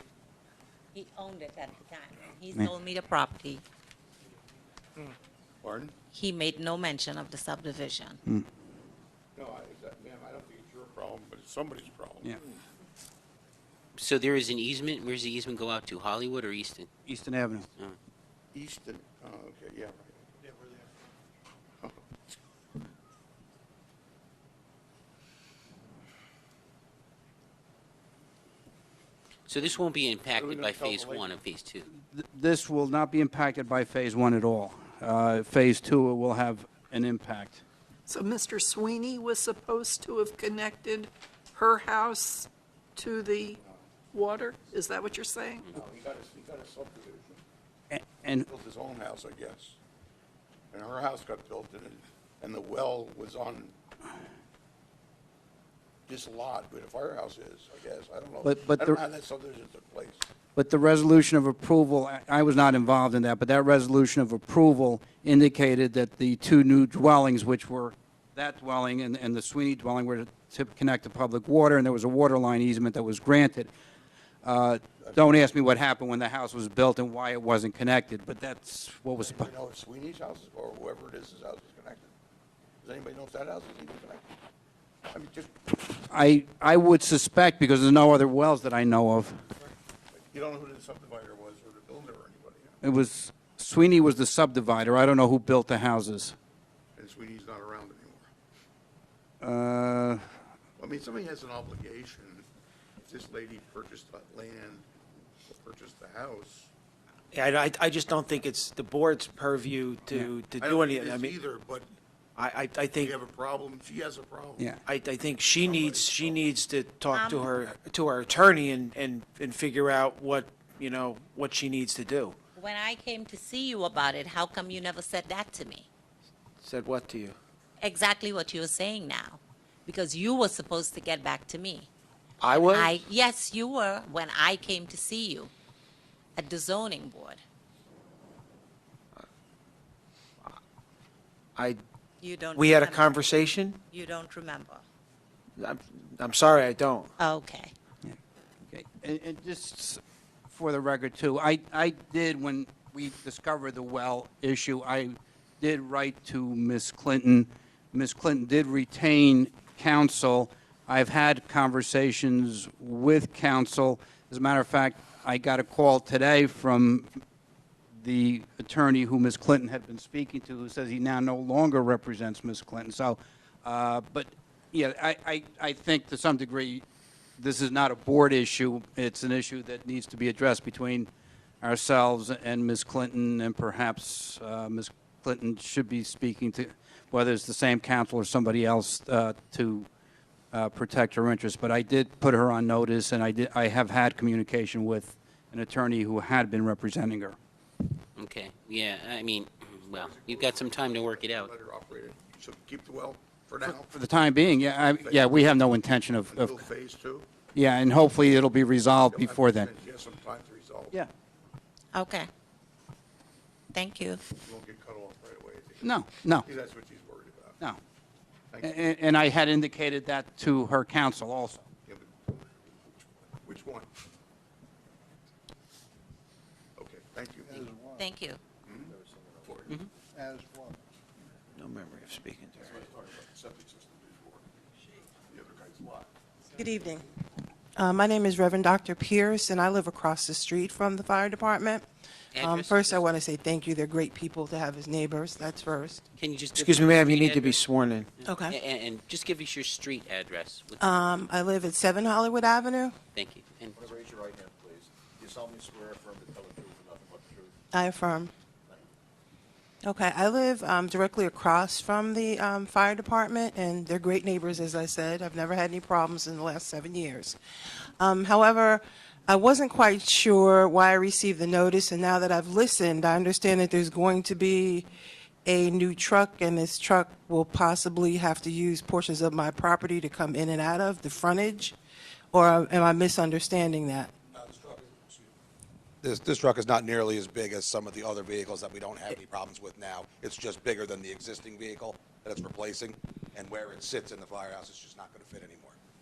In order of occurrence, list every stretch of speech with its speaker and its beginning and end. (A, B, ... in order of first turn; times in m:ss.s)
0:00.9-0:03.6 A
0:05.6-0:05.9 B
0:06.1-0:08.2 A
0:09.4-0:12.4 B
0:13.9-0:16.9 C
0:17.0-0:17.7 D
0:18.5-0:20.5 B
0:29.5-0:31.9 C
0:30.3-0:31.3 B
0:32.1-0:37.6 D
0:38.1-0:43.6 E
0:43.5-0:43.9 B
0:44.1-0:45.7 E
0:45.7-0:47.4 B
0:47.9-0:48.5 D
0:48.4-0:49.8 B
0:50.7-0:53.7 B
0:56.1-1:00.3 B
0:58.4-0:59.0 D
1:00.5-1:13.7 D
1:14.4-1:19.5 D
1:15.0-1:15.4 B
1:19.2-1:22.1 B
1:22.8-1:24.2 B
1:25.1-1:25.8 B
1:26.1-1:29.4 D
1:30.1-1:32.8 B
1:32.8-1:36.4 D
1:37.0-1:38.3 B
1:39.4-1:40.3 D
1:40.8-1:42.5 B
1:43.0-1:44.9 B
1:45.4-1:46.7 B
1:47.3-1:51.3 F
1:50.6-1:51.9 B
1:52.4-1:53.1 F
1:53.0-1:54.7 B
1:54.8-2:02.4 F
1:55.5-1:56.5 B
1:57.1-1:57.6 A
2:02.6-2:05.9 A
2:06.6-2:07.4 F
2:07.8-2:11.9 A
2:12.4-2:13.0 F
2:12.5-2:15.5 A
2:16.4-2:17.4 A
2:22.2-2:24.8 A
2:22.6-2:23.8 F
2:25.6-2:27.1 F
2:27.2-2:27.7 A
2:28.7-2:47.2 D
2:48.0-2:56.8 D
2:57.4-3:01.1 D
3:01.6-3:09.9 D
3:10.5-3:17.4 D
3:18.2-3:21.5 C
3:19.7-3:23.9 B
3:23.6-3:26.6 D
3:25.0-3:25.5 B
3:26.3-3:27.3 B
3:27.5-3:29.7 D
3:29.0-3:31.0 B
3:31.9-3:32.3 A
3:33.7-3:34.2 A
3:34.4-3:37.6 B
3:35.8-3:36.5 D
3:38.5-3:38.8 B
3:38.6-3:41.6 D
3:41.8-3:42.6 B
3:43.4-3:43.9 B
3:46.8-3:47.7 B
3:48.0-3:48.4 A
3:48.6-3:49.7 B
3:48.8-3:49.5 G
3:51.6-3:52.7 F
3:55.3-3:56.0 B
3:56.5-3:57.0 H
3:57.8-4:01.8 H
4:02.3-4:03.0 C
4:02.4-4:06.0 H
4:06.2-4:07.6 C
4:06.6-4:08.1 F
4:08.2-4:08.6 H
4:08.3-4:10.8 C
4:10.8-4:12.9 H
4:13.1-4:13.8 C
4:13.7-4:17.5 G
4:17.7-4:18.3 H
4:19.8-4:27.4 H
4:28.0-4:34.9 H
4:35.4-4:41.8 H
4:42.3-4:44.1 H
4:44.4-4:45.1 I
4:46.0-4:55.8 I